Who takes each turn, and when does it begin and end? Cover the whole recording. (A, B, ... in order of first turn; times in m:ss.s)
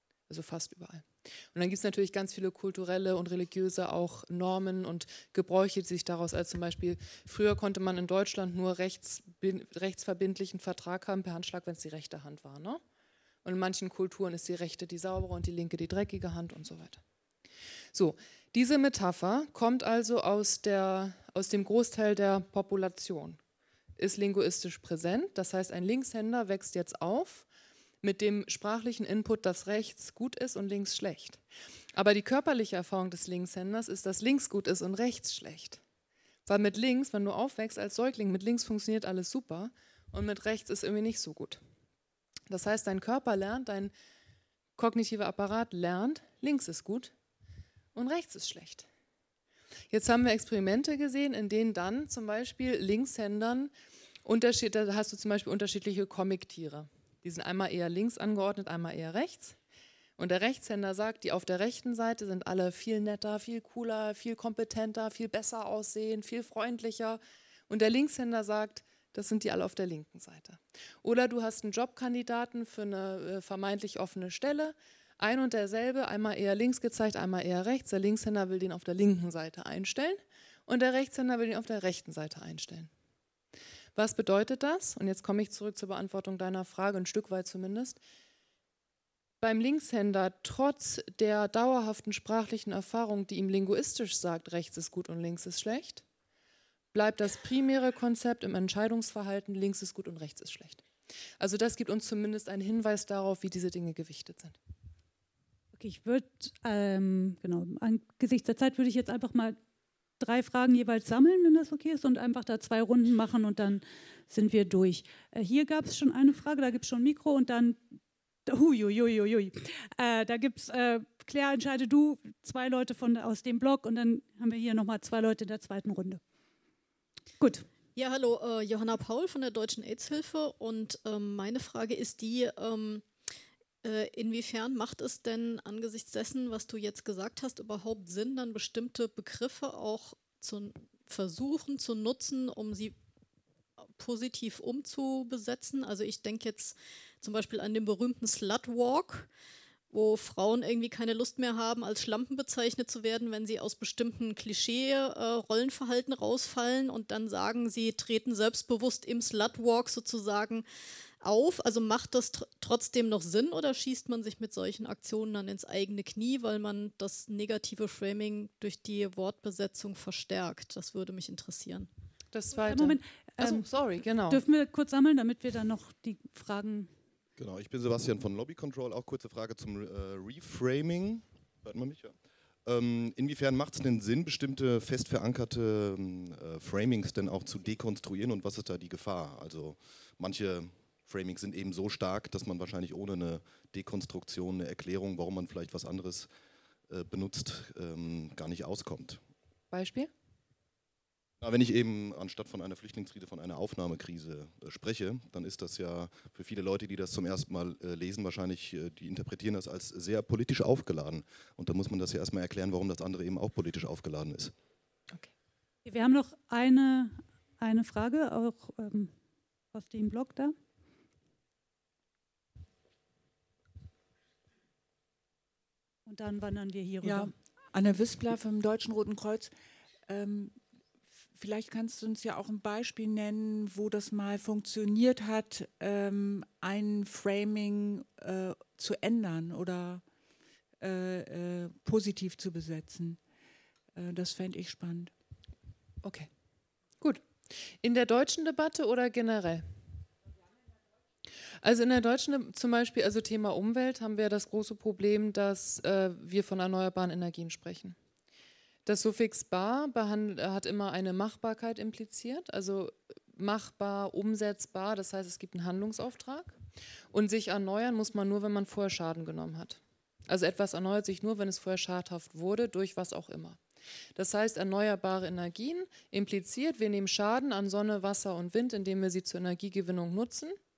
0:00.3-0:12.8 A
0:13.4-0:17.0 A
0:17.9-0:23.4 A
0:24.0-0:27.5 A
0:28.0-0:31.4 A
0:31.9-0:35.8 A
0:36.5-0:41.6 A
0:42.5-0:43.9 A
0:44.8-0:47.1 A
0:48.0-0:48.9 A
0:49.9-0:53.7 A
0:54.2-0:59.6 A
1:00.2-1:22.9 A
1:24.0-1:28.0 A
1:29.4-1:36.0 A
1:36.9-1:40.8 A
1:41.4-1:44.6 A
1:45.7-1:49.6 B
1:50.2-1:57.8 B
1:58.5-2:06.2 B
2:07.4-2:07.7 B
2:08.0-2:13.1 C
2:13.8-2:23.0 C
2:23.9-2:29.3 C
2:29.9-2:40.7 C
2:41.2-2:51.9 C
2:52.3-2:54.4 A
2:52.6-2:53.7 B
2:54.3-2:56.9 B
2:57.4-3:16.3 D
3:16.9-3:19.2 D
3:19.7-3:20.1 A
3:21.4-3:34.5 D
3:35.8-3:39.1 B
3:39.7-3:40.6 B
3:46.0-3:47.3 B
3:47.0-3:50.6 E
3:51.3-4:00.0 E
4:00.8-4:03.2 E
4:03.9-4:05.1 E
4:06.0-4:06.3 A
4:07.8-4:09.7 A
4:11.6-4:18.0 A
4:18.9-4:26.6 A
4:27.1-4:33.6 A
4:34.2-4:40.6 A